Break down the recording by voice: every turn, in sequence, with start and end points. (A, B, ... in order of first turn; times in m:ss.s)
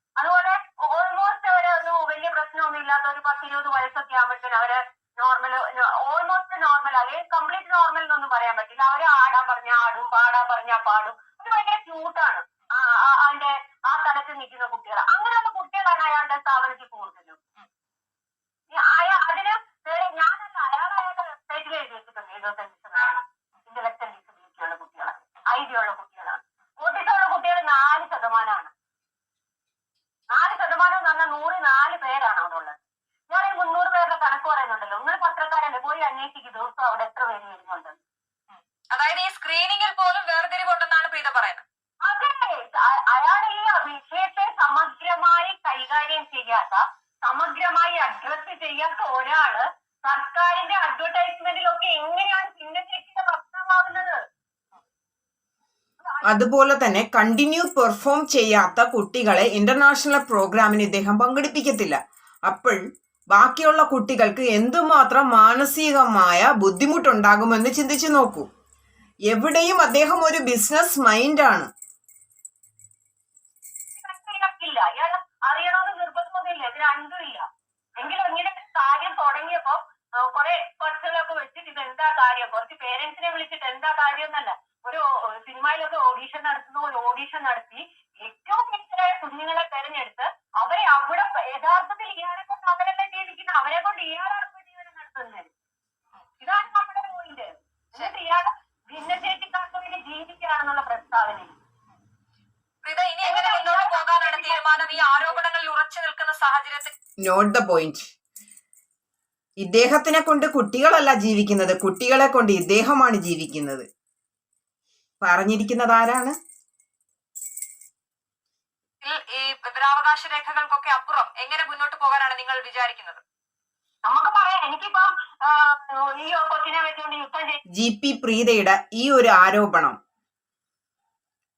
0:00.2-0:17.4 A
0:18.7-0:28.7 A
0:30.3-0:32.8 A
0:33.3-0:38.0 A
0:38.5-0:41.6 B
0:42.0-0:54.2 A
0:56.0-0:56.4 A
0:56.2-1:02.8 C
1:03.3-1:08.5 C
1:09.3-1:11.7 C
1:13.9-1:17.4 A
1:18.0-1:35.5 A
1:36.4-1:41.6 A
1:42.8-1:46.9 B
1:43.2-1:45.4 A
1:47.2-1:48.1 C
1:49.6-1:53.8 C
1:55.2-1:56.4 C
1:59.0-2:03.2 B
2:04.0-2:07.6 A
2:07.7-2:10.0 C